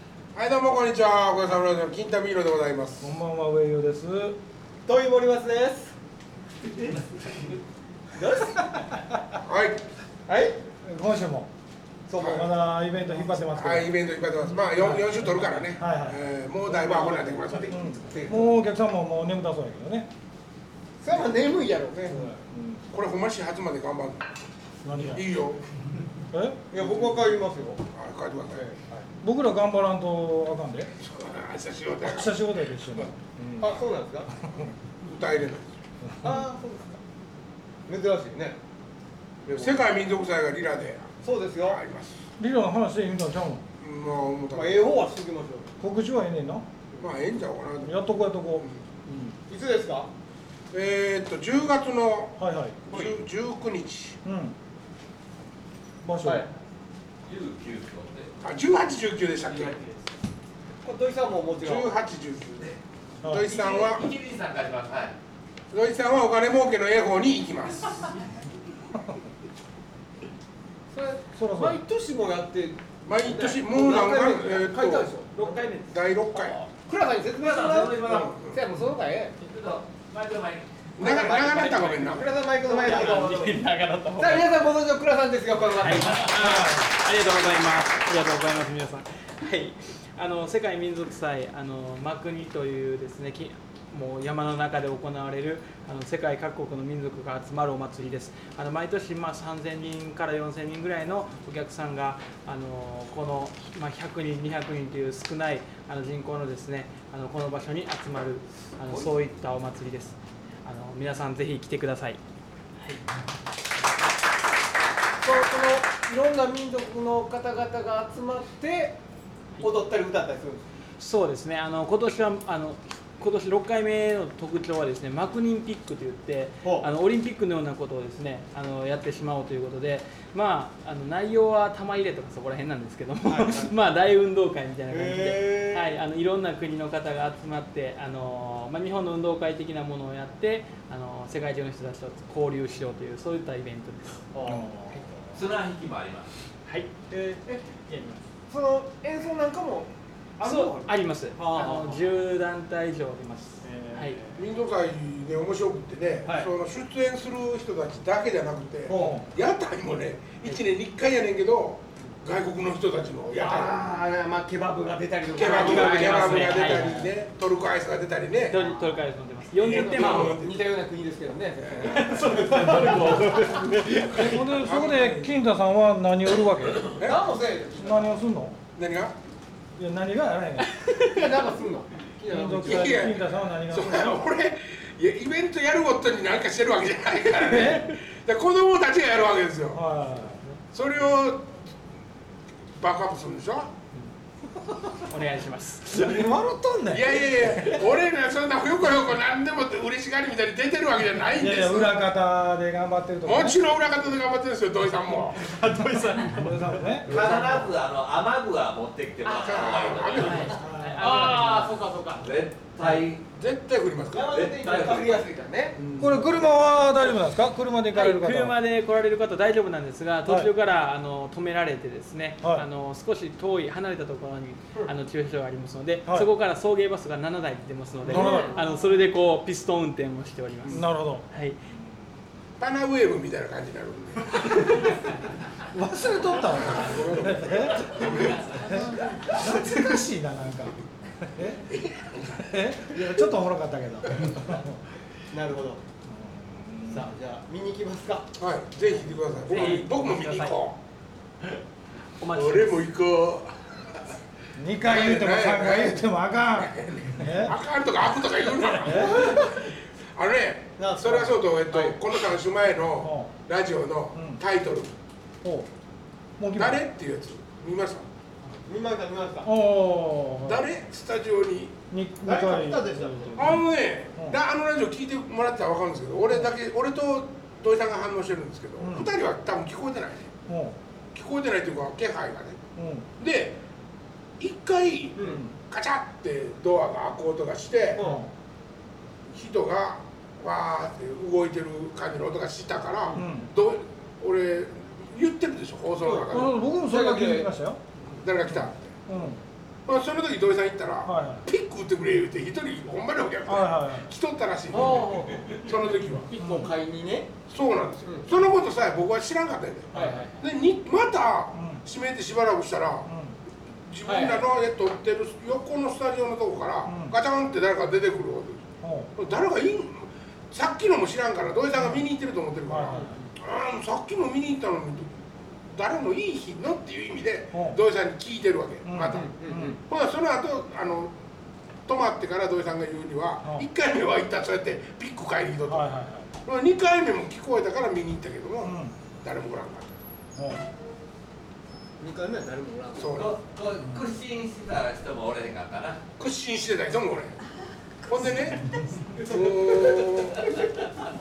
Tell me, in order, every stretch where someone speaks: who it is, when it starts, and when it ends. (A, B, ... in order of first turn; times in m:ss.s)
0:00.4-0:03.1 A
0:03.0-0:04.4 B
0:04.8-0:05.9 C
0:08.1-0:08.9 C
0:09.4-0:09.8 A
0:10.3-0:10.6 C
0:10.8-0:11.5 B
0:12.1-0:12.5 C
0:12.2-0:12.5 A
0:12.2-0:14.0 B
0:13.4-0:17.8 A
0:14.7-0:16.2 B
0:16.7-0:18.6 C
0:17.7-0:20.1 B
0:21.0-0:22.4 C
0:22.1-0:22.8 B
0:22.9-0:24.3 A
0:24.8-0:25.2 B
0:25.0-0:25.6 A
0:26.3-0:26.6 B
0:26.7-0:27.8 C
0:27.9-0:28.7 A
0:28.5-0:29.1 C
0:29.2-0:30.9 B
0:31.0-0:32.4 A
0:32.0-0:33.8 B
0:33.6-0:34.3 C
0:35.0-0:35.8 A
0:36.0-0:36.4 B
0:36.2-0:37.0 C
0:37.9-0:38.6 C
0:39.4-0:39.9 C
0:39.5-0:42.2 A
0:41.2-0:41.8 C
0:42.4-0:43.6 B
0:43.8-0:44.9 A
0:44.5-0:45.7 C
0:45.8-0:46.7 B
0:47.0-0:48.0 A
0:47.8-0:49.3 B
0:48.6-0:48.8 A
0:49.5-0:50.1 C
0:50.7-0:54.2 A
0:52.4-0:52.8 B
0:52.9-0:53.2 C
0:54.2-0:54.6 B
0:56.0-0:56.5 B
0:56.2-0:56.5 C
0:57.2-0:58.3 D
0:58.4-0:59.8 A
0:59.4-1:00.1 D
1:00.8-1:02.0 C
1:01.6-1:04.1 A
1:03.2-1:03.5 B
1:03.5-1:05.1 D
1:05.7-1:08.1 A
1:10.9-1:15.7 C
1:11.4-1:11.8 B
1:13.0-1:15.1 A
1:15.3-1:15.9 E
1:15.9-1:16.7 A
1:16.7-1:19.4 C
1:17.4-1:18.3 D
1:18.0-1:18.6 A
1:19.4-1:22.0 D
1:21.0-1:22.4 A
1:21.0-1:23.6 C
1:22.6-1:24.5 E
1:22.8-1:23.4 D
1:24.2-1:26.8 C
1:26.0-1:52.2 E
1:55.2-1:59.0 C
1:59.6-2:00.6 C
2:01.0-2:24.2 E
2:06.6-2:06.9 C
2:13.3-2:13.7 C
2:14.9-2:15.9 C
2:24.3-2:25.3 C
2:24.4-2:25.0 B
2:25.3-2:26.3 D
2:26.7-2:27.1 E
2:27.1-2:27.8 C
2:27.8-2:28.2 E
2:28.5-2:32.1 C
2:30.4-2:34.2 E
2:33.7-2:34.3 C
2:34.4-2:44.0 A
2:36.2-2:36.5 C
2:38.9-2:39.3 B
2:43.4-2:47.1 C
2:45.3-2:48.6 A
2:45.4-2:47.1 E
2:48.5-2:50.4 E
2:48.5-2:48.9 C
2:49.6-2:50.6 A
2:49.7-2:54.4 C
2:51.6-2:52.2 A
2:52.1-2:53.4 D
2:52.3-2:53.4 E
2:54.0-2:55.3 A
2:54.0-2:56.9 B
2:57.0-2:57.3 A
2:57.0-2:58.2 C
2:57.8-2:58.6 B
2:58.8-2:59.2 A
2:59.8-3:01.0 B
3:01.0-3:03.0 C
3:02.3-3:04.2 B
3:02.6-3:09.8 A
3:07.4-3:08.0 B
3:09.7-3:10.6 B
3:10.7-3:11.5 A
3:12.8-3:13.7 A
3:14.9-3:16.2 E
3:15.9-3:17.8 B
3:16.9-3:22.0 A
3:21.4-3:23.7 B
3:23.2-3:25.6 A
3:25.5-3:26.5 E
3:26.3-3:27.4 B
3:27.0-3:33.2 D
3:27.1-3:27.5 E
3:29.2-3:30.5 A
3:30.2-3:31.9 E
3:30.5-3:31.5 B
3:31.0-3:32.3 C
3:33.3-3:34.4 A
3:34.1-3:35.8 C
3:34.2-3:35.3 D
3:35.8-3:36.3 A
3:36.0-3:38.6 B
3:37.9-3:51.6 E
3:40.2-3:40.5 B
3:48.0-3:48.7 B
3:48.1-3:48.4 C
3:50.7-3:51.2 B
3:52.6-3:54.8 A
3:55.7-4:01.7 B
3:56.4-3:58.8 A
4:01.6-4:02.8 A
4:02.5-4:04.8 B
4:05.3-4:05.8 C
4:06.1-4:07.1 B
4:06.9-4:08.3 C
4:08.4-4:10.8 A
4:09.5-4:10.6 E
4:12.2-4:12.8 E
4:12.3-4:14.0 A
4:14.6-4:17.6 B
4:14.8-4:24.9 A
4:18.8-4:19.4 B
4:18.9-4:19.5 C
4:20.8-4:22.0 C
4:23.0-4:23.3 B
4:24.2-4:24.4 B
4:25.4-4:25.7 B
4:26.4-4:26.8 B
4:26.6-4:28.1 A
4:28.7-4:29.5 C
4:29.4-4:30.7 B
4:30.4-4:31.8 A
4:31.9-4:34.4 B
4:32.2-4:33.4 C
4:33.4-4:40.3 A
4:38.8-4:39.1 B
4:40.5-4:40.8 B
4:41.1-4:42.6 A
4:42.8-4:43.1 B
4:43.2-4:43.6 A
4:44.4-4:48.1 A
4:45.2-4:45.4 C
4:48.0-4:48.2 C
4:48.0-4:48.3 B
4:49.3-4:56.6 A
4:53.1-4:53.5 B
4:56.0-4:57.5 C
4:56.3-4:57.8 B
4:58.1-4:58.9 A
4:59.1-4:59.4 B
4:59.9-5:06.3 A
5:01.0-5:01.5 B
5:03.5-5:04.1 B
5:04.7-5:07.3 C
5:06.4-5:06.8 B
5:07.5-5:13.1 A
5:09.9-5:10.4 C
5:11.5-5:11.8 B
5:13.1-5:13.4 B
5:13.8-5:31.1 A
5:14.0-5:14.4 C
5:16.9-5:17.2 B
5:18.8-5:19.1 B
5:21.7-5:22.1 B
5:22.7-5:23.2 B
5:22.9-5:23.3 C
5:27.5-5:27.8 B
5:28.8-5:29.8 B
5:29.1-5:29.8 C
5:31.9-5:35.9 A
5:33.4-5:33.7 B
5:35.7-5:36.3 B
5:36.4-5:40.0 A
5:38.6-5:39.0 B
5:40.4-5:40.6 B
5:42.0-5:43.2 C
5:43.0-5:43.4 A
5:43.2-5:46.0 D
5:43.8-5:44.1 B
5:46.2-5:47.4 A
5:48.0-5:50.5 A